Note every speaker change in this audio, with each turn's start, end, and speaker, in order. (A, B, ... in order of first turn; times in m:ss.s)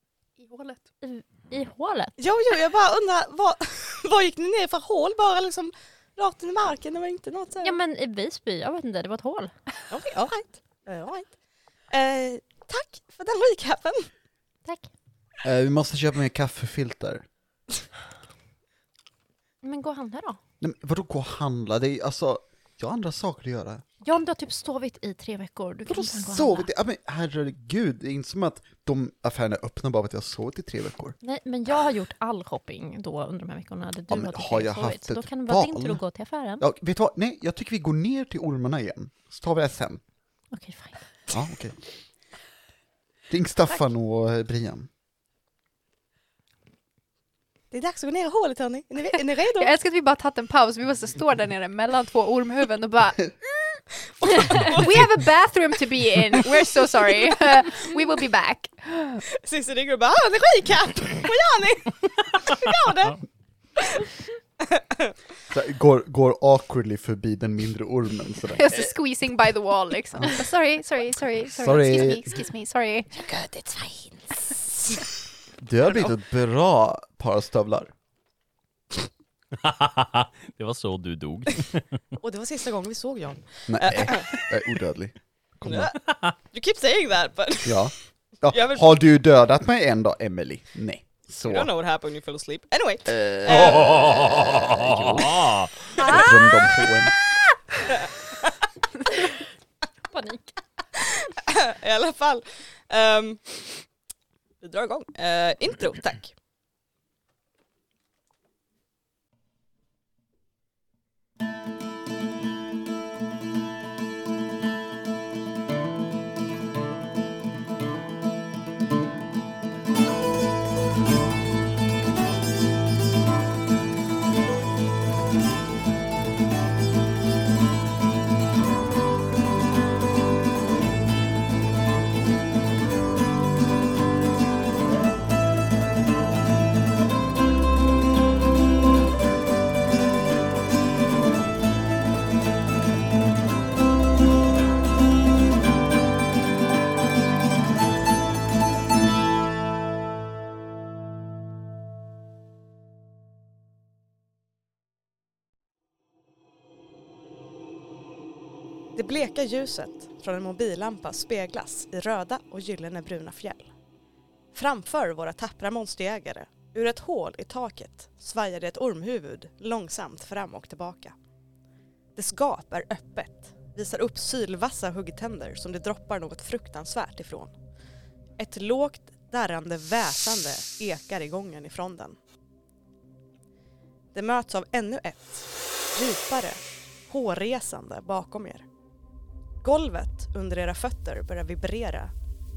0:00.4-0:00.8 A
0:01.0-0:02.2 B
0:02.2-0:07.7 C
0:07.6-0:09.5 B
0:09.9-0:11.3 C
0:11.9-0:14.1 C
0:15.4-0:17.2 D
0:19.6-0:20.4 B
0:20.6-0:23.8 D
0:24.0-0:26.7 B
0:25.9-0:31.2 D
0:31.2-0:36.6 B
0:34.1-0:36.0 D
0:36.6-0:40.0 D
0:40.5-0:41.0 B
0:41.3-0:41.8 D
0:43.3-0:44.9 D
0:47.7-0:49.7 C
0:49.6-0:53.4 A
0:54.2-0:55.1 C
0:54.4-0:59.2 A
0:59.3-1:03.2 C
1:03.8-1:04.1 C
1:04.6-1:05.1 C
1:05.5-1:08.9 D
1:08.5-1:13.1 A
1:10.2-1:10.5 D
1:11.6-1:12.4 D
1:13.1-1:15.2 C
1:15.6-1:17.9 D
1:19.5-1:21.9 E
1:22.2-1:24.4 C
1:23.7-1:25.9 D
1:25.7-1:27.9 C
1:27.6-1:31.7 D
1:28.5-1:28.9 C
1:31.4-1:34.0 C
1:33.1-1:37.1 D
1:33.5-1:35.9 E
1:36.0-1:36.3 A
1:37.9-1:38.6 C
1:40.1-1:40.6 B
1:41.0-1:43.7 C
1:44.6-1:46.4 C
2:39.0-2:43.7 C
2:44.5-2:51.2 C
2:52.2-2:57.5 C
2:58.4-3:02.2 C
3:04.1-3:08.6 C
3:09.6-3:12.1 C